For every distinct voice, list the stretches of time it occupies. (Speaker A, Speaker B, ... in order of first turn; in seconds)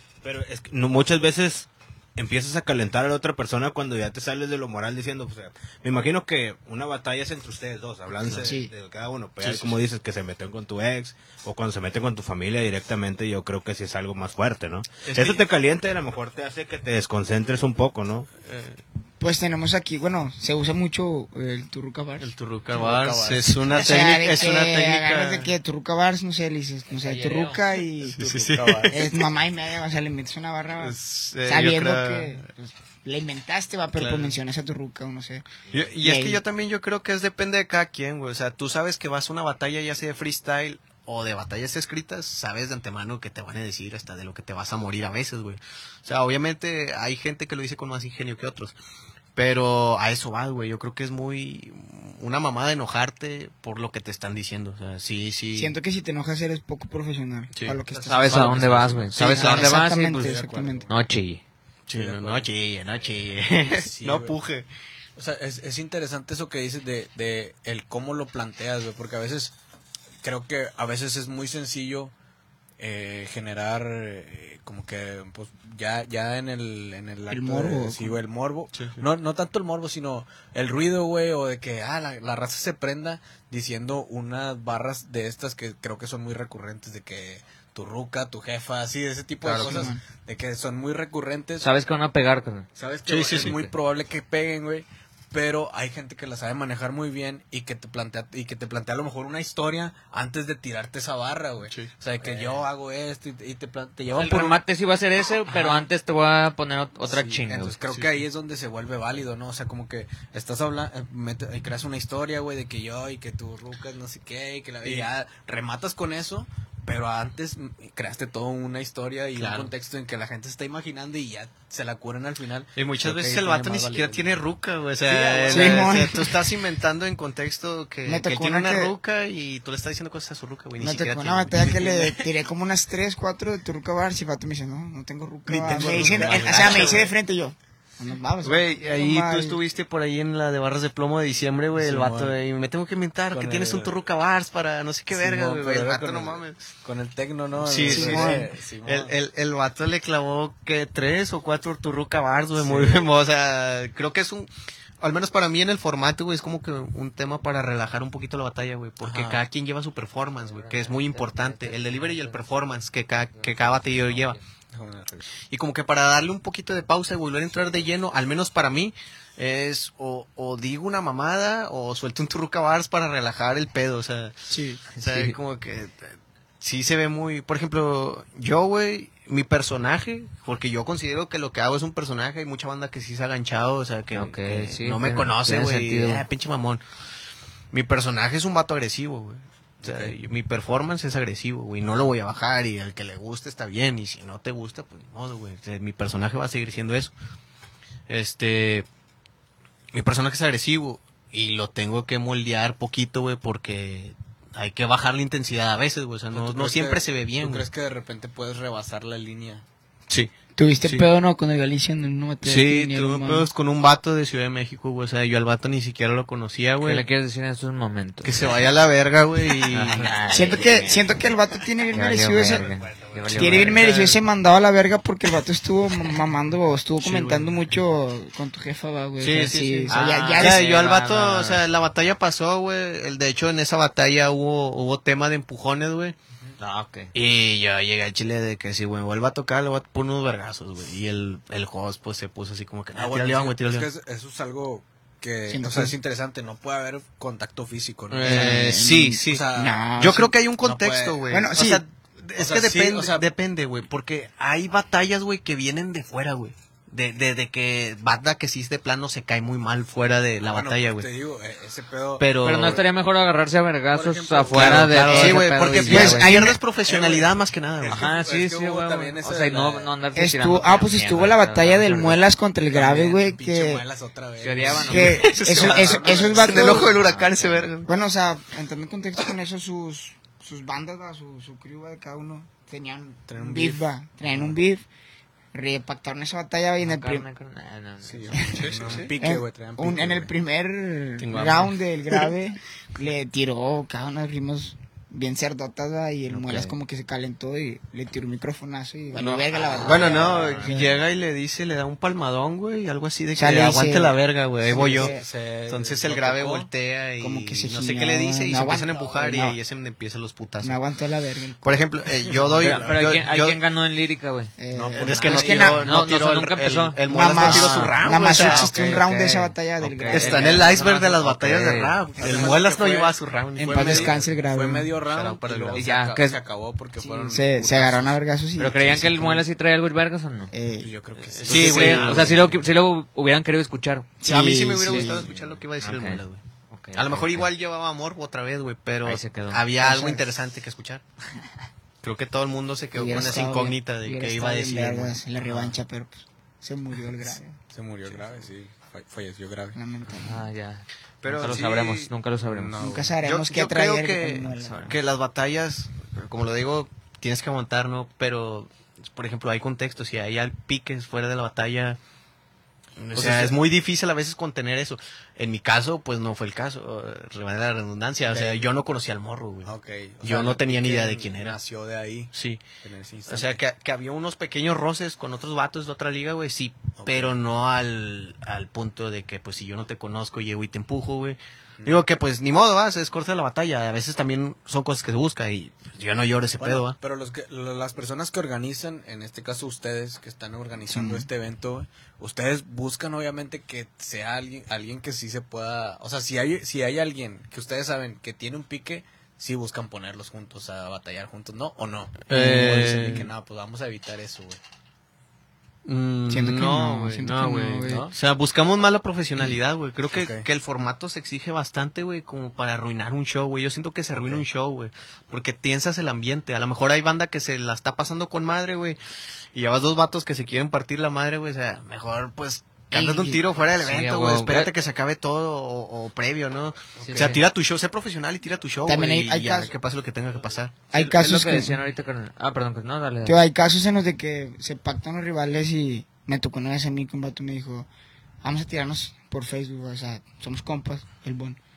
Speaker A: 0.2-18.3
Speaker B: 8.3-8.7, 19.2-22.3, 23.7-35.4, 36.0-36.4, 55.5-60.9, 77.3-78.2, 89.6-90.0, 125.5-126.5, 128.1-128.9, 130.8-139.6, 147.8-148.5, 174.5-174.8, 210.6-213.5, 220.3-222.7, 223.3-230.7, 245.5-245.9, 248.2-250.3, 251.3-251.8, 265.2-266.6, 270.1-273.8, 274.7-276.9, 277.9-284.8, 285.5-287.2, 288.4-288.6, 289.2-301.0, 303.4-305.2, 307.2-309.6, 310.6-311.8, 314.6-315.9, 317.1-320.8, 322.2-322.5, 323.6-324.9, 327.0-329.4, 330.5-330.9, 334.2-335.3, 339.8-340.2, 342.9-347.6, 349.7-350.5, 352.8-354.9, 390.8-391.3, 406.3-408.1, 422.9-423.4, 428.9-429.7, 430.9-431.8, 433.2-437.9, 438.4-441.6
Speaker C: 9.4-9.8, 15.0-15.4, 18.4-18.8, 22.2-25.5, 28.1-29.2, 30.8-32.4, 33.9-34.4, 35.7-48.7, 49.4-55.8, 57.5-57.8, 59.1-59.8, 61.9-64.7, 78.7-79.0, 93.1-93.5, 101.7-102.5, 107.9-108.2, 114.8-115.1, 119.3-119.7, 122.8-132.3, 135.5-137.1, 138.4-146.6, 147.6-164.4, 165.5-186.8, 187.7-197.1, 198.1-198.8, 199.9-207.7, 210.8-211.1, 212.4-217.0, 218.2-220.1, 223.3-224.2, 227.0-227.5, 229.2-236.2, 237.1-243.9, 248.1-261.1, 262.2-262.8, 264.5-268.0, 274.9-277.9, 288.5-289.1, 291.2-292.3, 299.1-305.2, 305.7-310.8, 311.6-313.6, 314.9-318.7, 320.1-324.2, 325.1-325.9, 331.3-332.4, 334.2-336.4, 336.9-341.0, 342.0-345.2, 351.2-352.1, 353.2-362.0, 363.0-369.7, 370.2-371.6, 372.3-372.6, 373.3-387.0, 402.3-403.3, 405.8-419.0, 419.5-431.0
Speaker D: 22.7-23.7, 28.2-29.0, 57.9-59.4, 60.0-61.0, 61.9-62.5, 63.1-64.3, 65.2-69.5, 70.2-72.1, 72.8-91.7, 92.8-104.6, 105.5-105.8, 107.0-124.4, 125.1-126.0, 135.5-137.1, 141.8-142.3, 143.3-143.9, 145.1-149.1, 152.6-153.0, 159.0-159.4, 164.7-165.2, 189.8-190.1, 206.3-209.6, 242.9-249.8, 250.6-251.2, 252.3-253.3, 260.4-262.3, 263.9-265.6, 266.9-269.9, 272.7-276.8, 283.3-284.6, 288.0-290.3, 299.8-300.6, 304.7-306.7, 312.2-313.0, 314.7-315.9, 322.2-328.2, 330.8-332.6, 335.1-335.5, 347.7-349.8, 352.5-353.1, 363.1-363.6, 368.3-368.7, 369.6-373.6, 377.0-377.4, 386.6-404.6, 407.8-408.1, 410.1-410.4, 414.1-414.4, 427.0-427.3
Speaker E: 26.9-27.6, 58.0-61.4, 89.4-89.8, 91.6-92.7, 93.3-93.7, 104.1-107.8, 160.4-162.5, 163.3-164.4, 174.9-175.4, 184.1-186.2, 216.8-218.5, 219.6-221.1, 221.9-223.8, 229.9-231.6, 236.6-237.1, 262.4-266.3, 267.9-272.2, 274.4-275.3, 276.8-277.7, 286.8-288.9, 296.3-296.8, 312.6-314.5, 315.3-322.0, 325.7-326.4, 328.6-330.5, 331.5-334.1, 335.8-337.5, 339.0-339.6, 350.2-352.8, 354.5-354.9, 423.7-424.7, 427.0-427.4, 431.0-433.4